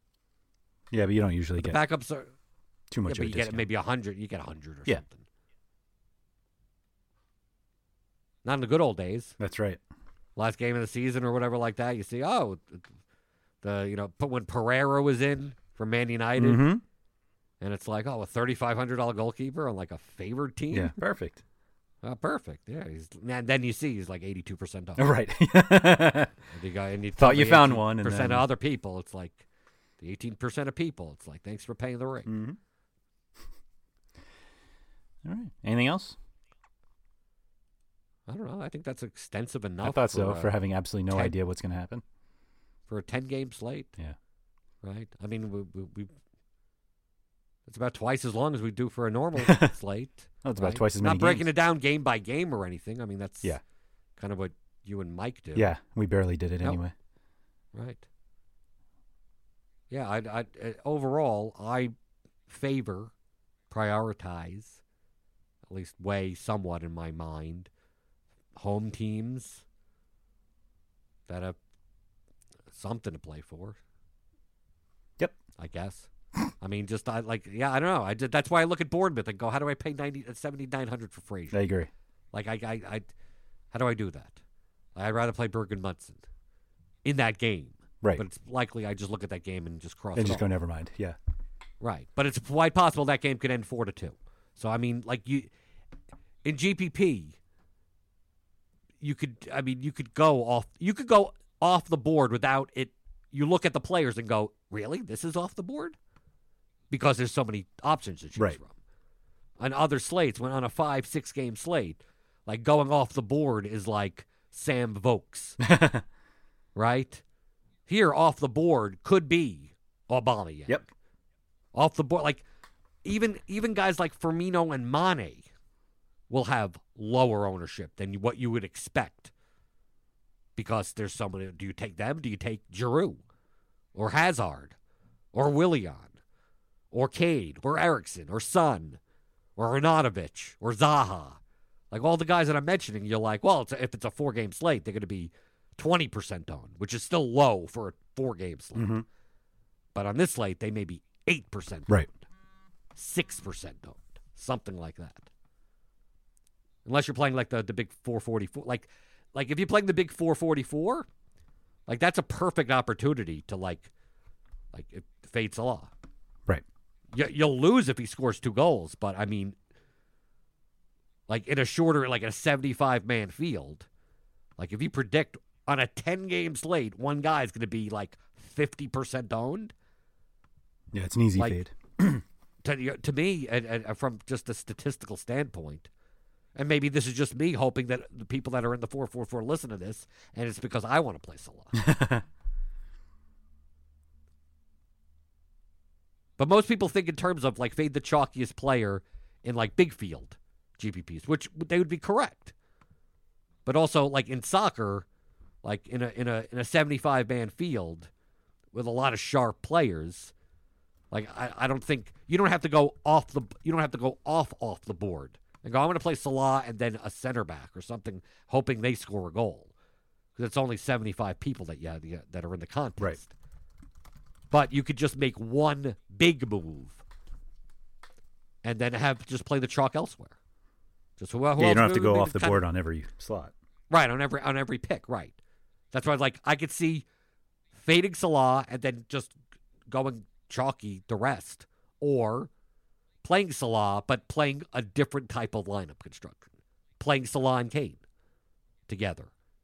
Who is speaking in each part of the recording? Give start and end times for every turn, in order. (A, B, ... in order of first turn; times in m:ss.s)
0:00.9-0:01.8 A
0:01.6-0:02.3 B
0:02.9-0:03.7 A
0:03.0-0:05.2 B
0:08.4-0:09.4 B
0:09.4-0:09.8 A
0:10.4-0:12.9 B
0:13.6-0:16.6 B
0:16.4-0:16.8 A
0:17.6-0:21.0 B
0:20.7-0:21.4 A
0:22.0-0:25.1 B
0:25.0-0:26.4 A
0:26.5-0:29.4 B
0:27.2-0:28.5 A
0:30.0-0:32.4 B
0:32.3-0:32.6 A
0:35.2-0:36.2 A
0:38.3-0:40.5 B
0:39.8-0:42.0 A
0:41.1-0:41.4 B
0:42.9-0:43.9 B
0:44.8-0:46.1 B
0:47.7-0:53.6 B
0:49.4-0:49.7 A
0:50.4-0:51.5 A
0:54.2-0:55.7 B
0:55.6-0:56.9 A
0:57.7-0:58.0 B
0:59.9-1:01.9 B
1:02.5-1:03.1 B
1:03.7-1:04.8 B
1:05.7-1:07.7 B
1:08.6-1:09.6 B
1:11.3-1:11.6 B
1:12.7-1:13.8 B
1:15.6-1:16.1 B
1:16.6-1:21.6 B
1:21.5-1:21.9 A
1:22.3-1:23.1 B
1:23.7-1:24.4 B
1:25.0-1:26.2 B
1:27.0-1:30.5 B
1:30.2-1:31.2 A
1:31.8-1:35.5 B
1:36.4-1:37.4 B
1:39.0-1:46.0 B
1:46.9-1:48.8 B
1:49.6-1:55.6 B
1:55.6-1:56.0 A
1:56.8-1:57.2 B
1:57.9-2:00.9 B
2:01.7-2:02.4 B
2:03.0-2:05.5 B
2:06.3-2:09.3 B
2:10.6-2:13.2 B
2:13.9-2:14.8 B
2:15.3-2:16.2 B
2:16.9-2:19.0 B
2:19.6-2:21.4 B
2:21.9-2:29.0 B
2:28.8-2:29.1 A
2:30.0-2:32.2 B
2:33.0-2:35.3 B
2:36.8-2:41.1 B
2:41.9-2:43.9 B
2:44.7-2:45.9 B
2:47.1-2:49.6 B
2:51.3-2:53.9 B
2:54.6-2:59.7 B
3:00.9-3:02.2 A
3:01.4-3:01.6 B
3:02.6-3:05.9 B
3:06.6-3:11.9 B
3:11.8-3:12.2 A
3:16.4-3:22.5 B
3:23.7-3:25.1 B
3:25.6-3:28.1 B
3:28.7-3:30.3 B
3:31.1-3:39.7 B
3:40.4-3:43.3 B
3:44.5-3:47.0 B
3:48.6-3:50.4 B
3:51.2-3:52.6 B
3:51.6-3:53.5 A
3:53.9-3:55.4 B
3:55.9-3:57.0 B
3:57.7-3:59.4 B
3:59.9-4:02.5 B
4:03.2-4:08.0 B
4:08.9-4:09.3 B